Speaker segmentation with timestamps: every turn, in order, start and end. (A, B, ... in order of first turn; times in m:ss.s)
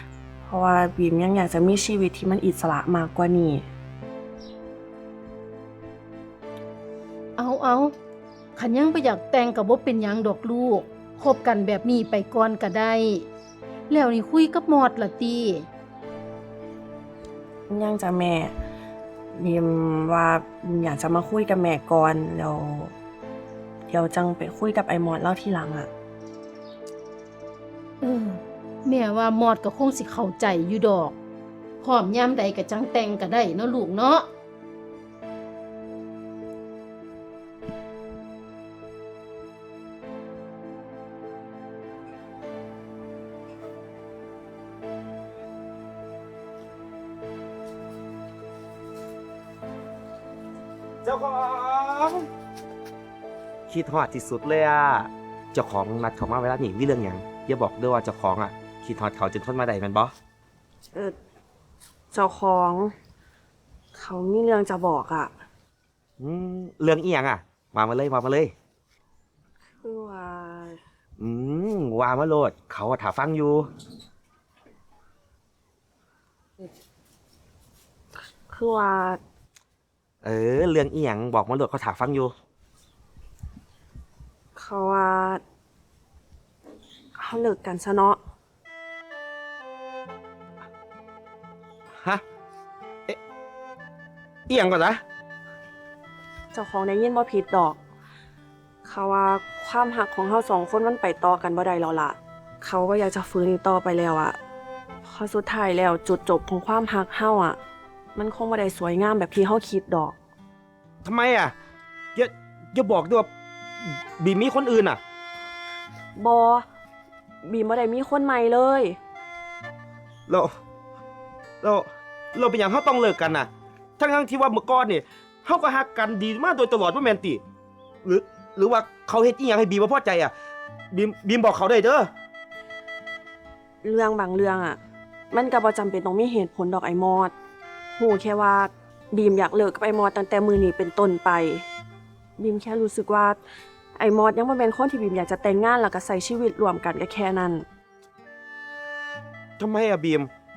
0:00.4-0:03.6 A
0:07.4-0:07.9 B
0:08.6-0:13.3 B
0:13.9-0:15.7 B
0:17.7-0:18.5 A
0:19.4-0:22.9 A
0:23.9-0:25.9 A
0:28.0-0:31.2 B
0:31.8-0:34.3 B
0:51.0-0:52.3 C
0:53.7-1:00.1 C
1:02.1-1:02.9 A
1:03.9-1:05.3 A
1:06.2-1:08.5 C
1:09.8-1:10.8 A
1:11.2-1:13.7 C
1:18.5-1:19.2 A
1:20.2-1:22.3 C
1:24.5-1:25.4 A
1:27.2-1:28.2 A
1:34.5-1:35.0 C
1:36.5-1:37.8 A
1:38.8-1:44.4 A
1:45.0-1:47.6 A
1:48.1-1:50.2 A
1:51.0-1:51.5 C
1:52.1-1:53.3 C
1:53.8-1:55.0 C
1:56.2-1:56.6 A
1:57.4-1:59.0 A
2:00.3-2:00.5 C
2:01.6-2:07.4 C
2:08.0-2:10.3 C
2:10.9-2:12.1 C
2:13.8-2:14.8 A
2:15.3-2:17.3 A
2:18.0-2:21.6 A
2:22.4-2:23.4 A
2:24.0-2:27.6 A
2:29.6-2:30.3 C